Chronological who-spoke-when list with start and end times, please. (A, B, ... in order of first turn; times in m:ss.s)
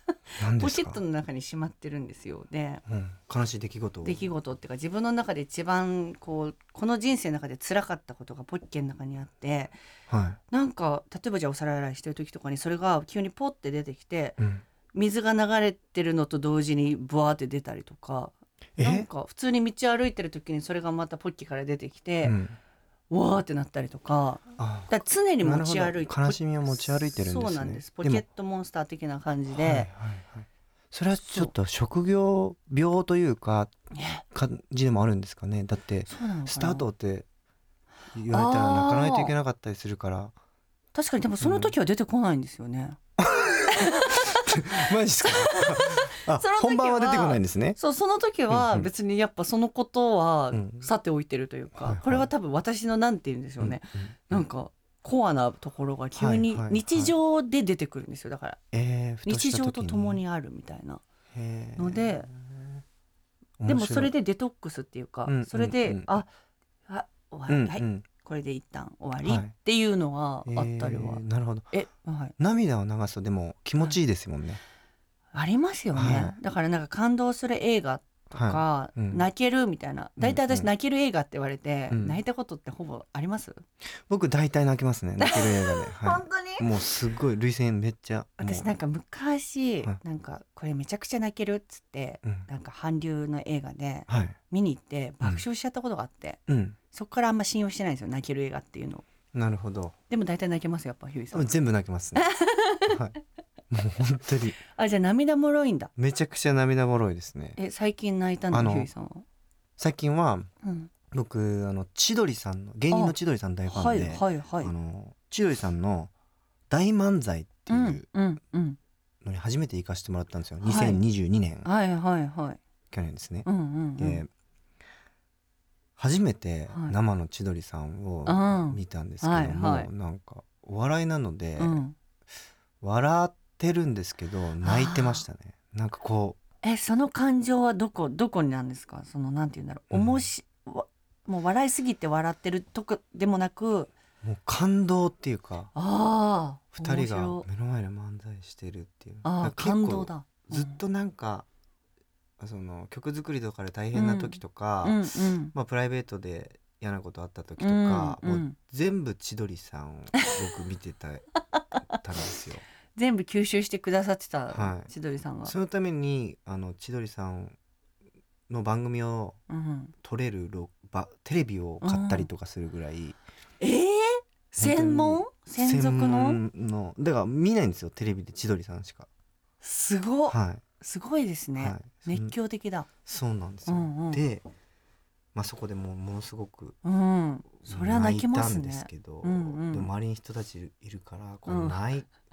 0:00.3-0:02.8 A
0:00.4-0:01.0 B
0:02.8-0:04.3 B
0:04.0-0:09.8 A
0:10.1-0:10.4 B
0:10.5-0:14.4 A
0:14.4-0:14.6 B
0:14.9-0:22.4 A
0:18.8-0:19.1 B
0:22.2-0:22.6 B
0:23.1-0:29.9 A
0:24.6-0:28.2 B
0:29.5-0:33.7 B
0:31.2-0:31.5 A
0:33.9-0:34.2 A
0:34.3-0:37.3 B
0:36.1-0:36.9 A
0:38.1-0:40.3 B
0:38.3-0:39.3 A
0:40.9-0:43.0 A
0:41.4-0:41.7 B
0:43.2-0:47.8 B
0:43.7-0:58.6 A
0:48.5-0:48.9 B
0:50.5-0:50.9 B
0:51.8-0:52.3 B
0:53.6-0:54.4 B
0:56.2-0:57.1 B
0:58.7-1:00.2 B
0:59.2-1:01.0 A
1:01.3-1:02.8 B
1:01.8-1:02.3 A
1:03.6-1:04.1 B
1:03.6-1:06.3 A
1:05.2-1:06.2 B
1:06.9-1:12.3 A
1:07.5-1:08.0 B
1:09.2-1:09.5 B
1:10.4-1:11.7 B
1:12.4-1:14.6 B
1:15.3-1:23.6 A
1:15.9-1:16.3 B
1:18.3-1:19.2 B
1:20.2-1:20.7 B
1:21.9-1:22.2 B
1:24.1-1:28.7 B
1:25.2-1:26.7 A
1:28.4-1:39.0 A
1:34.1-1:34.4 B
1:36.5-1:36.8 B
1:39.3-1:39.9 B
1:40.1-1:41.5 A
1:41.3-1:42.3 B
1:42.1-1:43.0 A
1:42.9-1:43.1 B
1:43.7-1:44.6 B
1:44.7-1:45.9 A
1:46.0-1:47.6 B
1:47.6-1:49.2 A
1:48.5-1:48.9 B
1:49.8-1:50.5 B
1:50.6-1:50.9 A
1:51.1-1:56.1 B
1:52.9-1:53.1 A
1:53.7-1:54.7 A
1:56.7-1:58.0 B
1:57.7-1:58.8 A
1:59.2-2:01.7 B
2:00.6-2:01.0 A
2:01.6-2:02.6 A
2:02.9-2:04.3 B
2:03.4-2:04.2 A
2:06.0-2:11.8 B
2:06.7-2:07.0 A
2:08.2-2:09.9 A
2:11.6-2:11.9 A
2:12.8-2:16.4 B
2:14.6-2:15.2 A
2:16.6-2:23.9 A
2:19.9-2:20.2 B
2:24.2-2:25.7 B
2:25.7-2:27.4 A
2:26.7-2:31.4 B
2:29.2-2:30.8 A
2:32.4-2:41.2 B
2:33.9-2:35.5 A
2:37.6-2:38.6 A
2:41.8-2:42.6 B
2:42.9-2:45.5 A
2:44.5-2:44.9 B
2:45.4-2:47.6 B
2:48.5-2:49.4 B
2:49.5-2:49.9 A
2:50.0-2:53.2 B
2:51.8-2:52.3 A
2:53.6-2:56.4 A
2:54.5-2:59.1 B
2:59.6-3:02.9 A
3:00.3-3:00.6 B
3:01.6-3:02.3 B
3:03.0-3:04.4 B
3:03.7-3:04.2 A
3:05.3-3:06.8 B
3:06.8-3:09.9 A
3:07.6-3:12.1 B
3:11.5-3:11.8 A